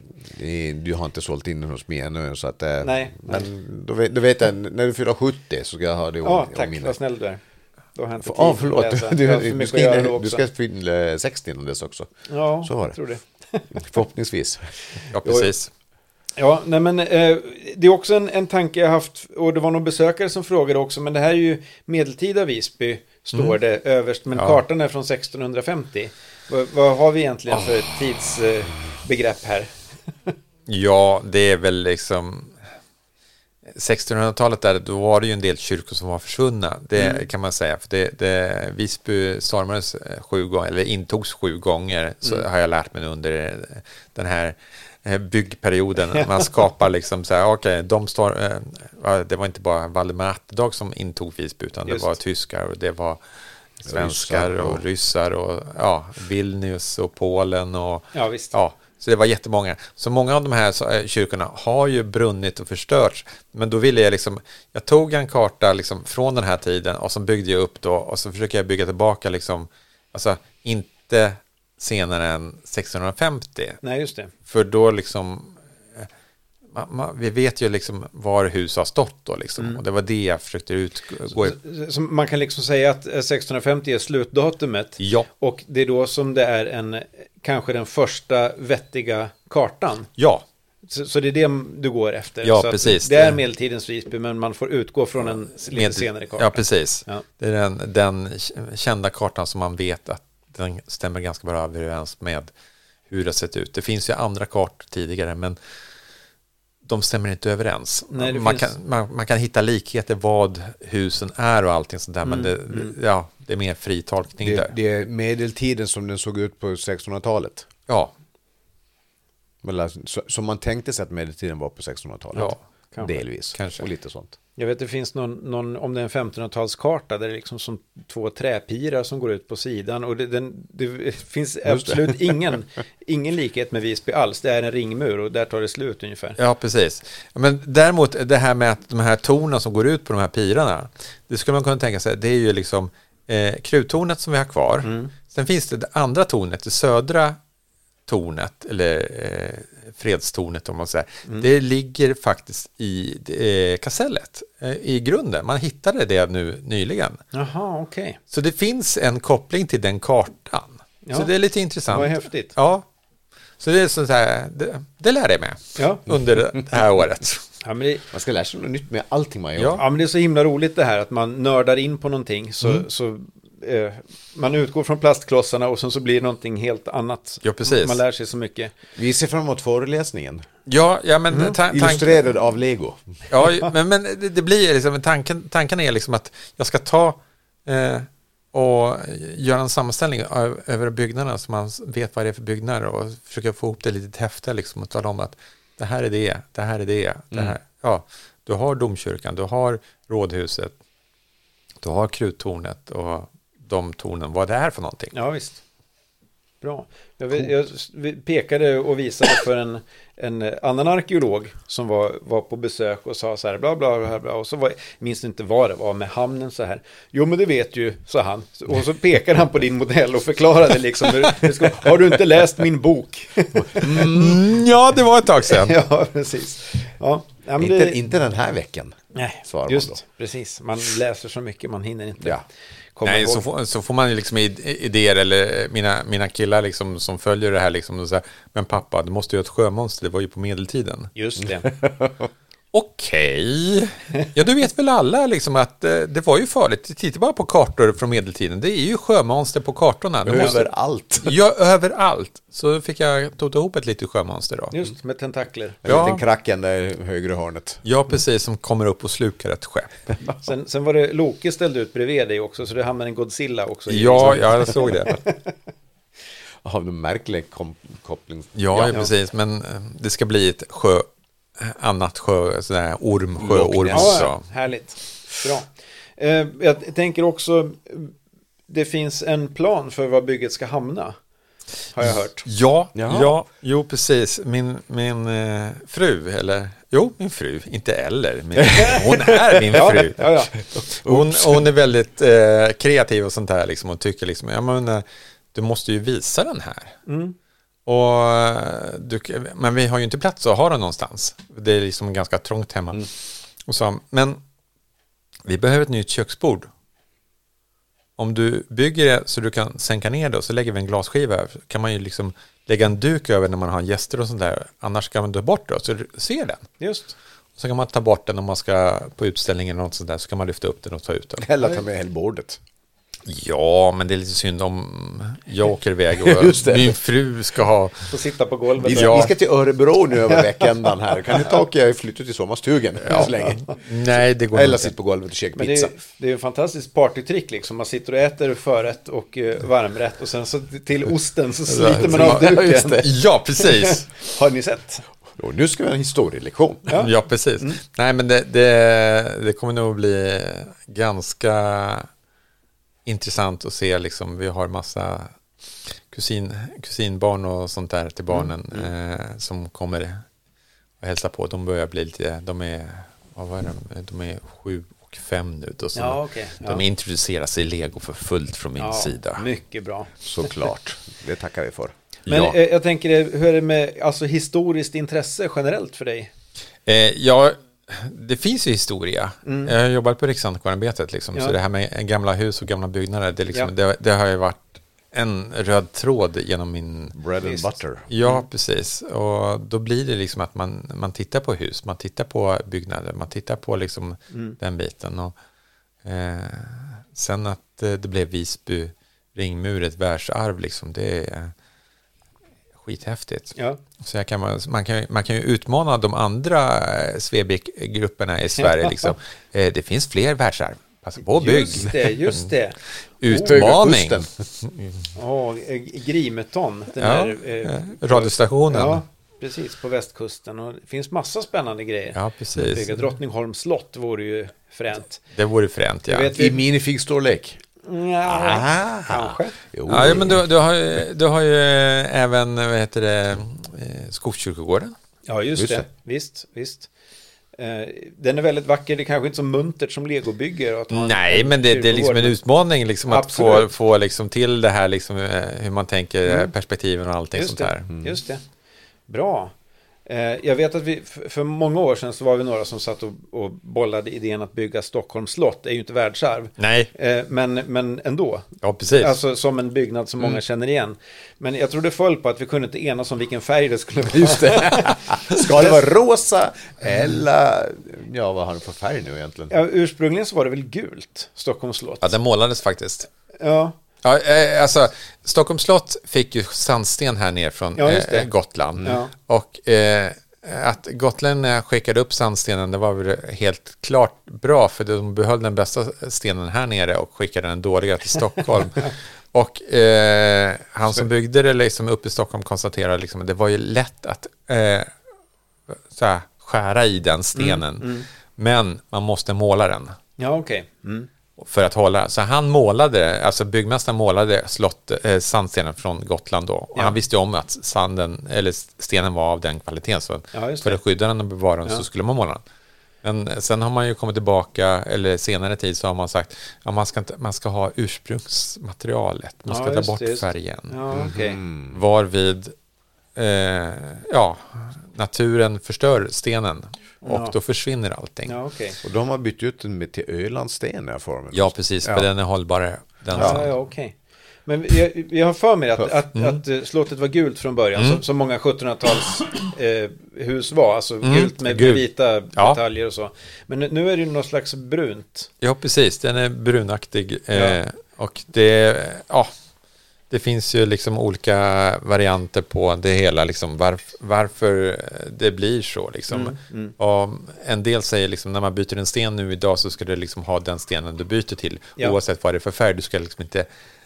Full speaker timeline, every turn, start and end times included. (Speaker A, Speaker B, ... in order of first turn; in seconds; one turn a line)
Speaker A: 0.2-7.0
Speaker B: 2.8-3.5
Speaker B: 6.2-7.4
Speaker B: 7.9-10.4
Speaker A: 8.2-12.1
Speaker B: 12.3-13.8
Speaker A: 12.6-13.0
Speaker A: 13.7-14.7
Speaker C: 15.1-15.7
Speaker B: 15.2-15.5
Speaker B: 16.4-29.7
Speaker C: 24.3-24.6
Speaker C: 30.7-32.6
Speaker C: 33.7-53.2
Speaker B: 37.0-37.2
Speaker C: 53.8-73.8
Speaker A: 53.9-54.8
Speaker B: 58.1-58.5
Speaker B: 73.8-74.3
Speaker C: 74.5-76.1
Speaker C: 76.7-81.6
Speaker B: 81.4-90.1
Speaker C: 85.0-85.3
Speaker C: 90.2-90.4
Speaker B: 90.9-97.2
Speaker C: 92.4-93.4
Speaker C: 95.6-102.5
Speaker C: 103.1-105.6
Speaker C: 106.8-114.7
Speaker B: 108.1-108.7
Speaker B: 112.2-112.9
Speaker A: 114.4-117.7
Speaker C: 117.9-118.1
Speaker A: 119.6-124.3
Speaker C: 123.5-123.8
Speaker B: 124.6-136.4
Speaker A: 131.7-132.4
Speaker C: 136.4-147.4
Speaker B: 144.8-145.1
Speaker C: 148.1-157.2
Speaker B: 157.3-158.2
Speaker C: 158.3-162.8
Speaker B: 161.1-161.3
Speaker B: 161.9-162.5
Speaker C: 163.6-167.4
Speaker B: 165.8-166.1
Speaker B: 167.6-168.0
Speaker A: 168.1-169.8
Speaker C: 169.6-169.8
Speaker B: 169.8-178.7
Speaker C: 177.4-178.0
Speaker A: 178.9-180.4
Speaker C: 180.7-182.2
Speaker B: 181.3-181.6
Speaker A: 181.7-183.0
Speaker C: 183.3-200.7
Speaker C: 201.8-205.1
Speaker B: 205.1-205.6
Speaker B: 206.6-224.1
Speaker A: 223.7-224.5
Speaker C: 223.8-225.8
Speaker B: 225.4-228.0
Speaker A: 227.6-230.0
Speaker B: 229.1-232.4
Speaker B: 232.9-233.4
Speaker C: 233.0-241.1
Speaker B: 241.1-241.7
Speaker A: 241.6-242.3
Speaker C: 242.7-250.7
Speaker A: 250.2-251.4
Speaker C: 251.2-254.7
Speaker B: 254.7-255.8
Speaker A: 255.8-257.8
Speaker C: 255.8-256.2
Speaker C: 257.8-260.1
Speaker B: 260.4-265.5
Speaker C: 263.9-265.2
Speaker A: 266.6-269.0
Speaker C: 268.5-271.1
Speaker C: 271.6-274.4
Speaker A: 273.4-274.3
Speaker B: 273.9-278.1
Speaker B: 278.7-281.1
Speaker B: 281.9-282.4
Speaker C: 282.0-296.9
Speaker A: 282.9-283.3
Speaker A: 288.6-289.6
Speaker B: 288.7-289.1
Speaker B: 289.7-290.5
Speaker A: 290.7-291.7
Speaker B: 297.1-297.4
Speaker C: 297.9-304.4
Speaker C: 305.4-306.7
Speaker C: 308.2-316.7
Speaker B: 316.8-317.1
Speaker C: 317.6-321.5
Speaker A: 321.4-322.6
Speaker C: 323.2-328.1
Speaker A: 326.2-327.0
Speaker B: 328.1-329.3
Speaker C: 328.8-329.3
Speaker A: 328.8-333.8
Speaker B: 330.3-330.5
Speaker C: 333.0-334.9
Speaker B: 333.1-333.7
Speaker A: 334.5-335.9
Speaker B: 335.5-345.0
Speaker A: 341.7-343.1
Speaker C: 341.7-344.1
Speaker A: 345.3-346.9
Speaker B: 346.9-347.8
Speaker C: 346.9-352.1
Speaker C: 353.1-355.3
Speaker C: 356.1-360.2
Speaker B: 358.3-358.9
Speaker C: 361.0-369.4
Speaker B: 365.9-366.8
Speaker B: 368.8-370.5
Speaker A: 370.2-371.9
Speaker C: 372.2-372.6
Speaker B: 372.3-376.3
Speaker C: 376.9-387.1
Speaker B: 379.4-379.7
Speaker A: 387.1-388.1
Speaker B: 387.4-387.7
Speaker C: 388.1-395.3
Speaker B: 394.3-394.6
Speaker C: 396.0-401.5
Speaker C: 402.8-412.5
Speaker B: 403.6-403.8
Speaker B: 408.6-408.9
Speaker B: 411.3-412.8
Speaker C: 413.2-415.0
Speaker A: 413.3-414.3
Speaker B: 415.1-425.2
Speaker C: 417.0-419.0
Speaker C: 422.1-423.0
Speaker C: 425.3-426.3
Speaker B: 426.1-426.6
Speaker A: 426.3-427.6
Speaker B: 427.8-429.6
Speaker A: 428.2-430.4
Speaker C: 429.9-434.9
Speaker B: 435.3-436.9
Speaker A: 435.6-435.9
Speaker B: 437.6-442.3
Speaker C: 440.9-447.9
Speaker B: 443.1-443.7
Speaker B: 446.2-446.5
Speaker B: 447.3-448.4
Speaker B: 449.1-449.5
Speaker B: 450.1-465.8
Speaker C: 456.6-456.9
Speaker C: 458.6-459.2
Speaker A: 464.1-469.5
Speaker B: 469.5-472.1
Speaker C: 472.0-473.1
Speaker B: 473.4-473.7
Speaker C: 474.0-494.9
Speaker B: 477.8-478.3
Speaker B: 478.8-479.1
Speaker C: 495.9-500.0
Speaker B: 497.3-498.1
Speaker B: 500.2-501.1
Speaker C: 501.4-512.4
Speaker B: 510.3-510.8
Speaker C: 513.0-521.1
Speaker B: 519.5-521.4
Speaker A: 520.9-521.8
Speaker C: 521.7-522.5
Speaker C: 523.1-528.3
Speaker B: 527.0-527.3
Speaker B: 528.2-528.8
Speaker A: 528.8-532.1
Speaker C: 531.3-533.5
Speaker B: 533.1-545.3
Speaker A: 533.1-533.4
Speaker C: 536.1-536.4
Speaker C: 537.8-538.0
Speaker C: 541.0-541.8
Speaker C: 545.4-549.3
Speaker B: 547.3-547.6
Speaker C: 550.1-563.5
Speaker B: 556.1-556.7